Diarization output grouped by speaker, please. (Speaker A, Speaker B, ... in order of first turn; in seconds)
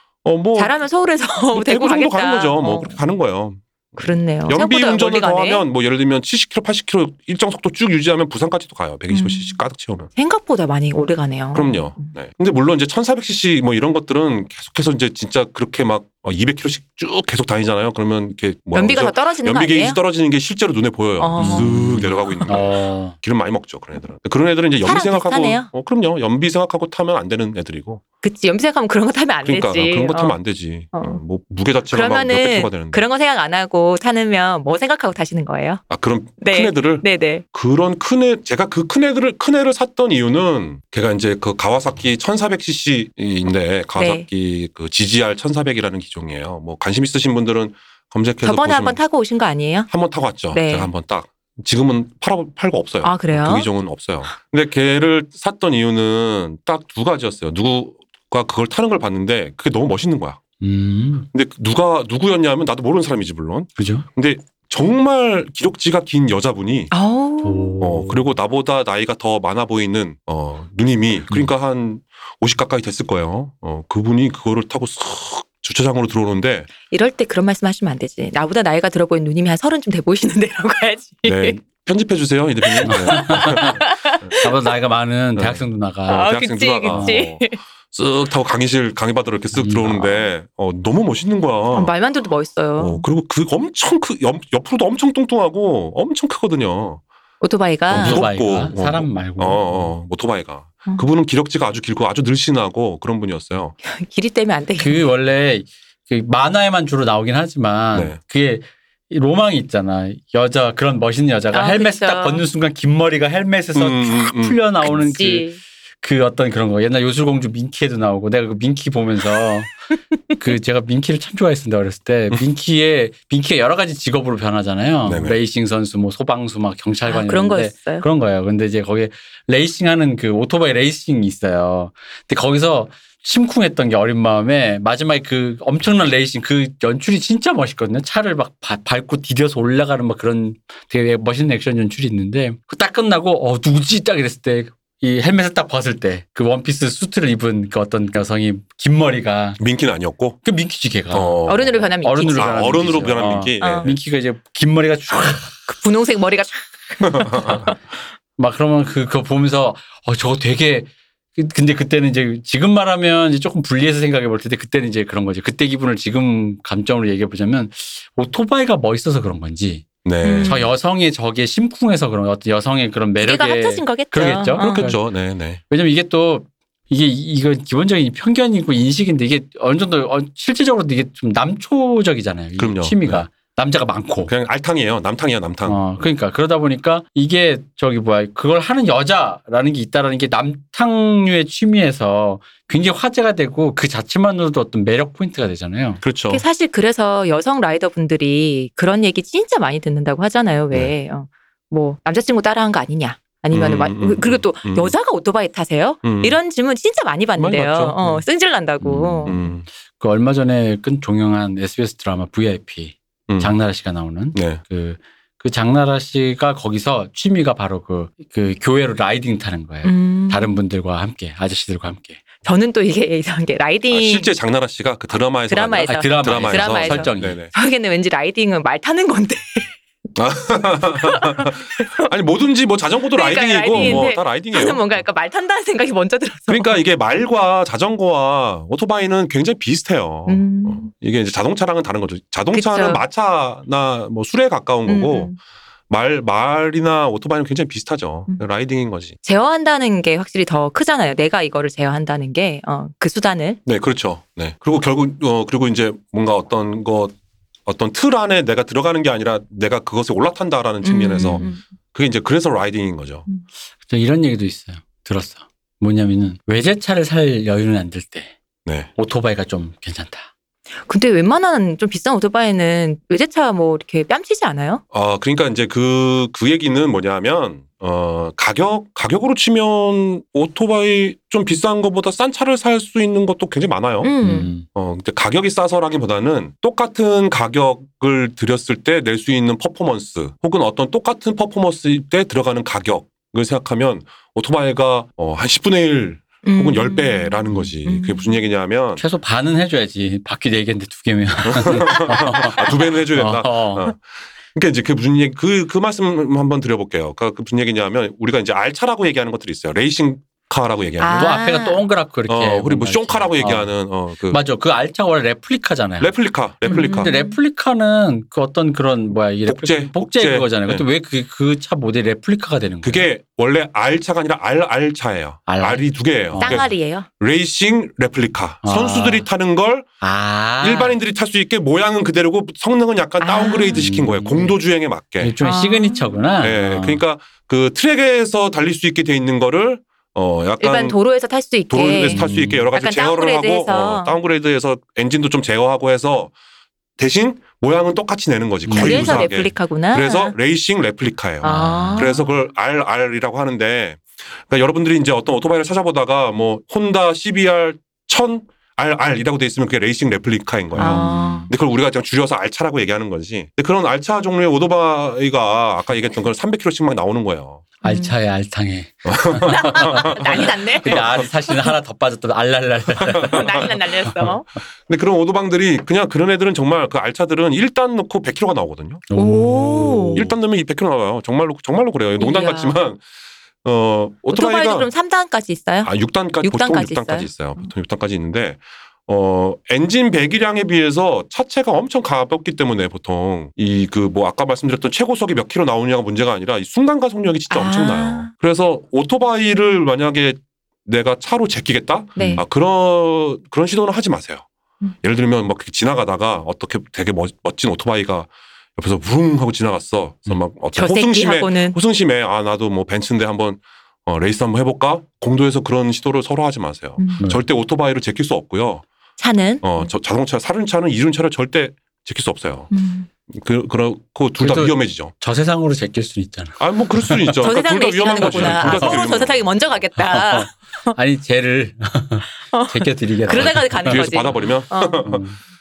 Speaker A: 0.2-0.7, 1.5-10.1, 11.5-28.0, 29.4-33.0, 35.9-49.0, 49.9-60.4, 61.3-66.9, 67.8-76.7, 81.2-84.4, 85.3-91.9, 92.8-97.0, 97.9-103.7, 107.9-108.2, 113.7-114.6, 125.0-125.4, 149.6-150.4, 151.1-153.9, 157.0-157.7, 170.0-170.6, 174.6-175.6, 182.6-183.2, 184.3-186.1, 196.0-196.4, 203.5-204.9, 206.0-206.4, 207.4-208.2, 209.2-209.7, 213.3-213.5, 214.3-214.6, 223.9-227.5, 230.2-234.9, 236.5-245.3, 245.9-249.2, 253.7-257.1, 257.6-263.2, 268.6-268.9, 274.9-284.1, 284.6-299.0, 301.4-304.0, 304.5-311.3, 312.3-314.4, 316.0-317.1, 319.4-320.8, 322.8-329.9, 330.6-335.3, 336.4-341.0, 341.7-346.3, 347.0-367.6, 369.0-371.3, 373.0-373.7, 374.9-379.0, 380.1-383.0, 383.6-384.9, 385.8-404.4, 405.0-418.8, 419.6-422.7, 423.3-425.1, 426.6-429.8, 433.3-435.2
Speaker B: 0.6-3.0, 4.0-5.6, 9.1-9.6, 10.2-12.1, 18.7-20.0, 21.2-22.4, 24.8-25.7, 28.2-30.4, 30.9-31.2, 31.9-35.8, 36.4-37.4, 44.0-44.2, 48.4-49.9, 50.5-50.9, 53.0-53.7, 66.9-67.7, 76.9-81.6, 82.6-84.5, 86.1-87.6, 91.7-93.0, 97.4-98.2, 103.8-105.0, 111.5-112.4, 114.8-115.6, 127.0-128.1, 151.4-152.7, 153.6-153.9, 155.7-157.8, 170.2-170.7, 173.2-174.9, 196.3-209.4, 219.8-220.6, 222.4-224.3, 225.5-229.7, 231.0-232.1, 233.1-236.8, 240.3-240.9, 242.5-243.0, 244.9-245.4, 249.2-253.6, 260.8-261.6, 270.9-274.8, 284.0-284.5, 296.4-298.4, 311.0-311.9, 316.6-317.4, 326.4-327.1, 333.2-333.9, 335.4-336.2, 340.6-344.2, 348.7-350.3, 351.4-352.2, 360.8-361.5, 367.8-368.1, 369.4-371.5, 373.3-374.4, 379.1-380.3, 382.2-382.8, 384.3-387.6, 397.5-398.3, 402.1-402.4, 410.7-411.8, 417.0-417.2, 419.2-419.9, 422.7-423.1, 427.4-430.9, 432.5-435.1
Speaker C: 21.4-23.1, 60.6-61.3, 63.8-64.0, 67.4-68.3, 82.8-83.8, 84.4-86.3, 86.8-87.2, 89.5-90.0, 97.9-99.9, 104.8-115.5, 116.0-119.7, 120.4-149.6, 150.4-155.7, 158.4-169.9, 170.4-175.0, 175.7-184.3, 185.7-196.0, 208.8-222.2, 225.8-227.4, 233.7-234.1, 263.8-268.3, 268.9-270.3, 284.2-284.6, 299.0-303.9, 311.1-313.7, 314.3-323.1, 325.5-326.7, 328.6-329.3, 330.0-331.0, 333.7-334.6, 335.2-337.0, 342.1-342.7, 348.6-349.3, 351.4-352.1, 360.7-361.5, 367.8-374.3, 379.1-380.3, 402.2-402.4, 424.4-427.4, 428.2-429.0, 430.0-434.5, 435.0-435.4